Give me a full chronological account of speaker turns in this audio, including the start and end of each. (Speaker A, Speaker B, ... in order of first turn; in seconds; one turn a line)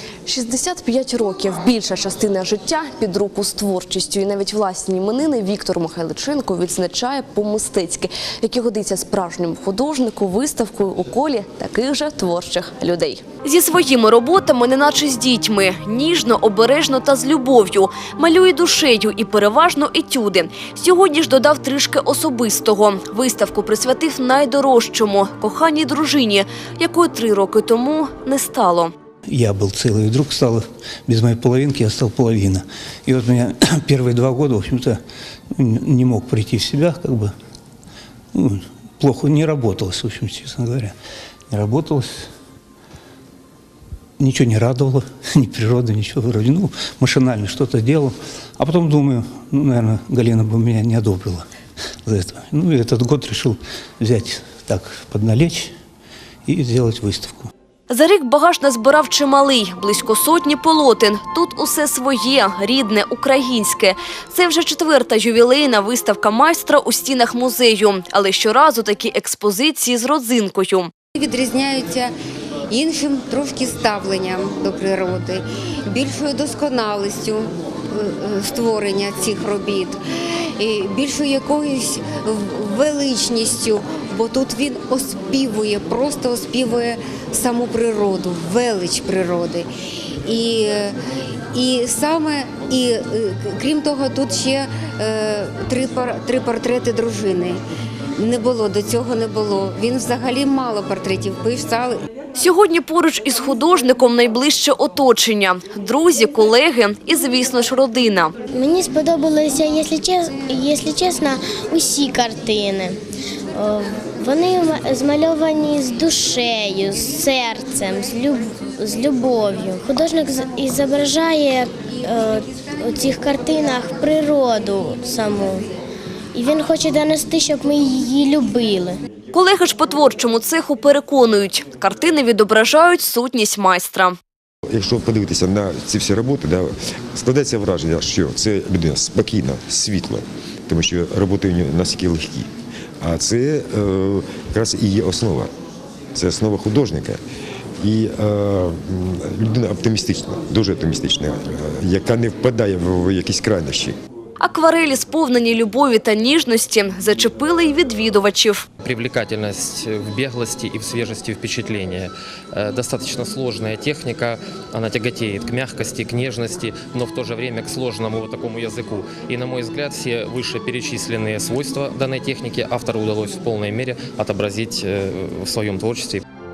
Speaker A: 0.3-5.6
Speaker A: 6.1-12.6
Speaker A: 13.4-28.9
Speaker B: 29.3-35.0
Speaker B: 35.5-37.3
Speaker B: 38.3-40.9
Speaker B: 41.5-42.2
Speaker B: 44.2-51.5
Speaker B: 52.0-55.7
Speaker B: 56.5-57.5
Speaker A: 57.9-70.9
Speaker C: 71.2-72.1
Speaker C: 72.7-80.0
Speaker C: 80.6-89.7
Speaker C: 90.2-90.9
Speaker C: 91.5-97.6
Speaker C: 98.2-102.0
Speaker A: 102.3-108.3
Speaker D: 108.5-113.0
Speaker D: 113.5-125.6
Speaker D: 126.3-129.0
Speaker A: 129.3-134.2
Speaker E: 134.7-142.5
Speaker E: 143.0-145.5
Speaker E: 146.1-147.2
Speaker E: 147.8-153.9
Speaker A: 154.4-158.7
Speaker F: 158.8-176.2